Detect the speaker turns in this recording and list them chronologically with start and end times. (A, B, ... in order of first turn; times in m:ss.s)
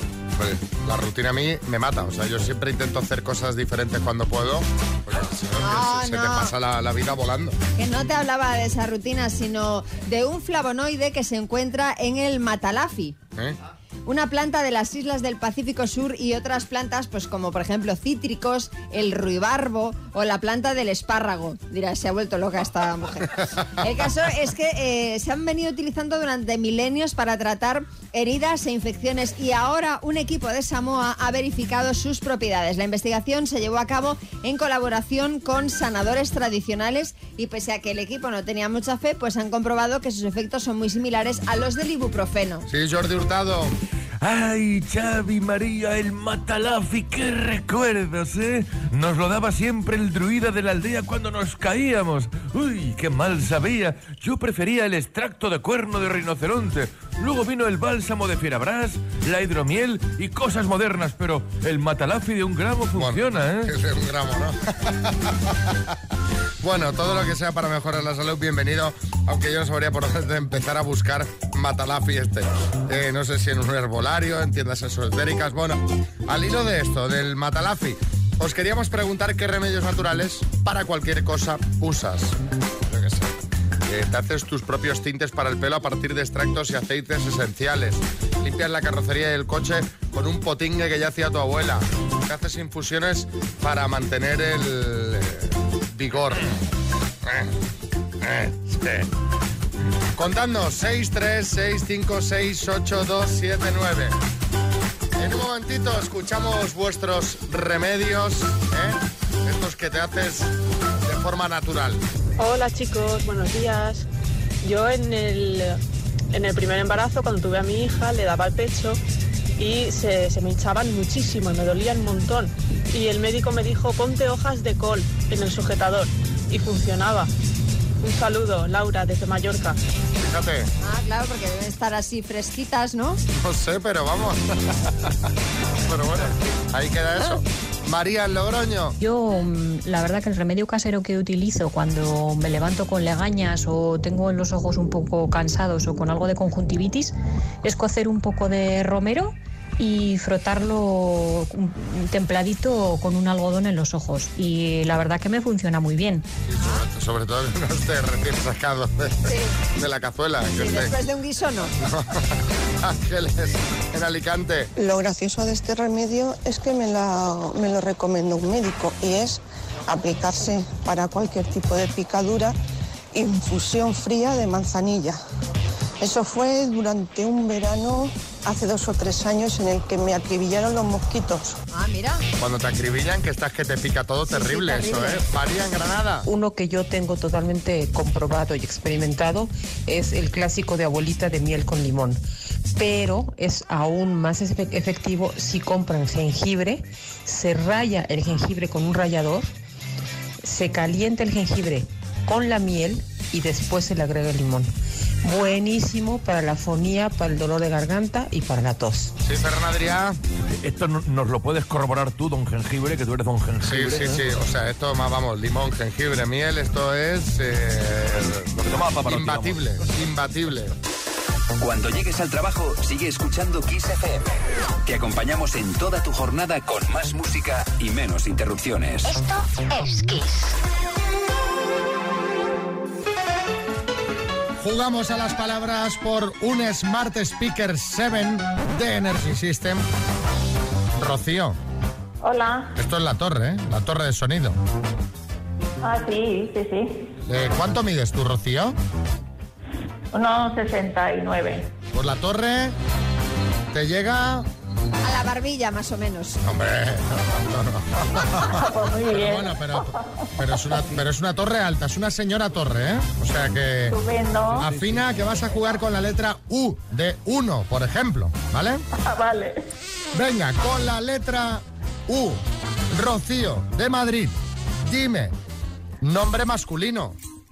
0:00.4-0:07.6 A
0:05.6-0:06.5 B
0:07.8-0:13.2 B
0:14.0-0:42.6 B
0:42.7-0:43.8 A
0:44.2-1:03.7 C
1:03.0-1:05.5 A
1:06.6-1:22.4 A
1:22.9-1:23.3 A
1:23.8-1:36.6 A
1:37.2-1:37.5 A
1:38.2-1:39.1 A
1:40.2-1:44.2 A
1:45.2-1:52.0 A
1:52.4-1:54.0 D
1:54.6-1:55.8 D
1:56.3-1:59.0 D
1:59.6-2:07.3 D
2:08.0-2:09.8 D
2:10.2-2:10.7 A
2:10.8-2:13.2 B
2:13.3-2:15.1 A
2:15.8-2:19.0 A
2:19.0-2:36.2 E
2:36.4-2:40.9 A
2:39.3-2:39.5 B
2:40.5-2:41.7 B
2:41.8-2:44.7 A
2:44.8-2:52.5 F
2:53.1-2:55.2 F
2:56.0-3:01.6 F
3:01.7-3:02.2 B
3:02.4-3:06.2 A
3:04.3-3:05.2 B
3:06.2-3:12.2 G
3:12.8-3:19.5 G
3:20.4-3:24.7 G
3:25.2-3:29.1 G
3:29.2-3:30.2 A
3:30.5-3:34.2 C
3:33.6-3:40.7 A
3:38.6-3:39.6 C
3:41.6-3:49.2 H
3:54.6-3:59.8 A
4:01.0-4:01.6 A
4:02.2-4:02.6 I
4:02.7-4:04.6 A
4:05.8-4:06.8 I
4:07.2-4:08.8 A
4:10.1-4:11.5 I
4:11.9-4:12.7 A
4:13.7-4:14.5 A
4:15.0-4:16.4 B
4:16.4-4:24.0 A
4:18.6-4:19.5 I
4:23.9-4:24.7 I
4:24.5-4:28.8 A
4:29.1-4:29.5 I
4:30.1-4:35.3 A
4:36.0-4:37.2 A